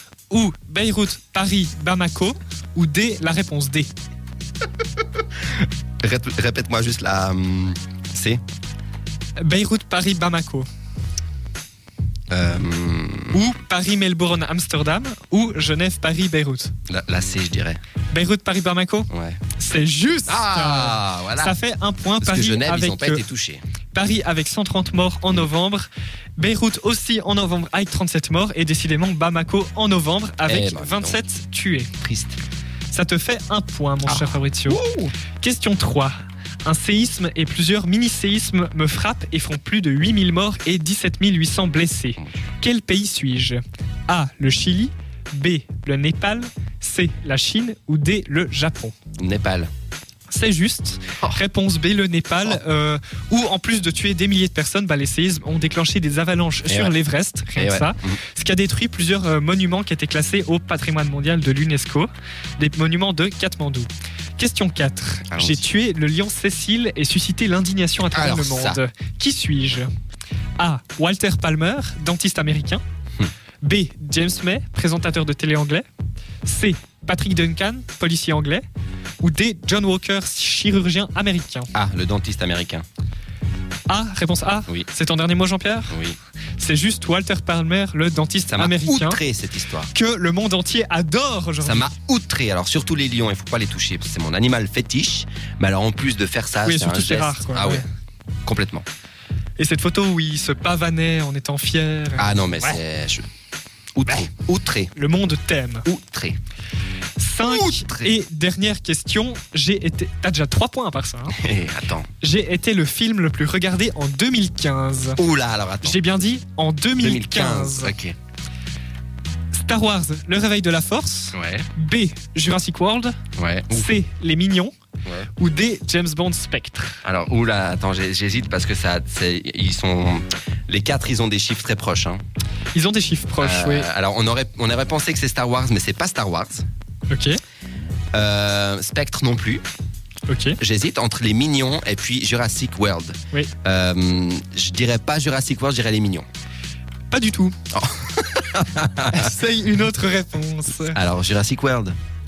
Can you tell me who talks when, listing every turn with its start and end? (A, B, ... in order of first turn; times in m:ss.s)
0:00.3-0:03.9 A
0:06.0-0:08.4 B
0:09.4-0:10.7 A
0:12.3-0:13.4 B
0:13.3-0:16.7 A
0:16.9-0:17.8 B
0:18.1-0:23.2 A
0:19.1-0:19.4 B
0:20.3-0:21.6 B
0:22.2-0:23.6 B
0:23.9-0:31.9 A
0:30.5-0:31.2 B
0:32.0-0:32.4 B
0:32.9-0:34.8 A
0:34.1-0:35.1 B
0:35.4-0:49.0 A
0:49.2-0:49.7 B
0:50.3-1:09.9 A
0:56.7-0:57.0 B
0:57.6-0:58.2 B
1:05.3-1:05.7 B
1:08.1-1:08.8 B
1:10.6-1:12.8 A
1:13.6-1:15.9 A
1:16.4-1:18.6 A
1:19.2-1:21.7 A
1:21.7-1:22.8 B
1:23.9-1:25.9 A
1:25.9-1:26.2 B
1:26.6-1:29.2 A
1:28.5-1:29.9 B
1:29.9-1:31.9 A
1:31.6-1:37.8 B
1:36.6-1:37.8 A
1:38.5-1:38.9 B
1:39.6-1:42.8 A
1:42.2-1:43.2 B
1:44.0-1:44.9 B
1:45.0-1:45.9 A
1:45.9-1:46.4 B
1:47.2-1:51.4 A
1:47.4-1:48.1 B
1:51.3-1:52.1 B
1:52.2-1:55.2 A
1:55.2-1:56.2 B
1:55.8-1:58.0 A
1:57.0-1:58.2 B
1:59.5-2:03.2 A
2:01.3-2:01.7 B
2:03.4-2:03.9 B
2:03.7-2:04.7 A
2:05.4-2:07.0 A
2:07.0-2:12.2 B
2:12.7-2:13.9 A
2:13.4-2:16.6 B
2:17.1-2:17.4 A
2:18.1-2:19.6 B
2:20.3-2:20.6 A
2:20.6-2:26.3 B
2:27.1-2:27.6 A
2:27.7-2:29.3 B
2:29.1-2:31.0 A
2:30.8-2:32.0 B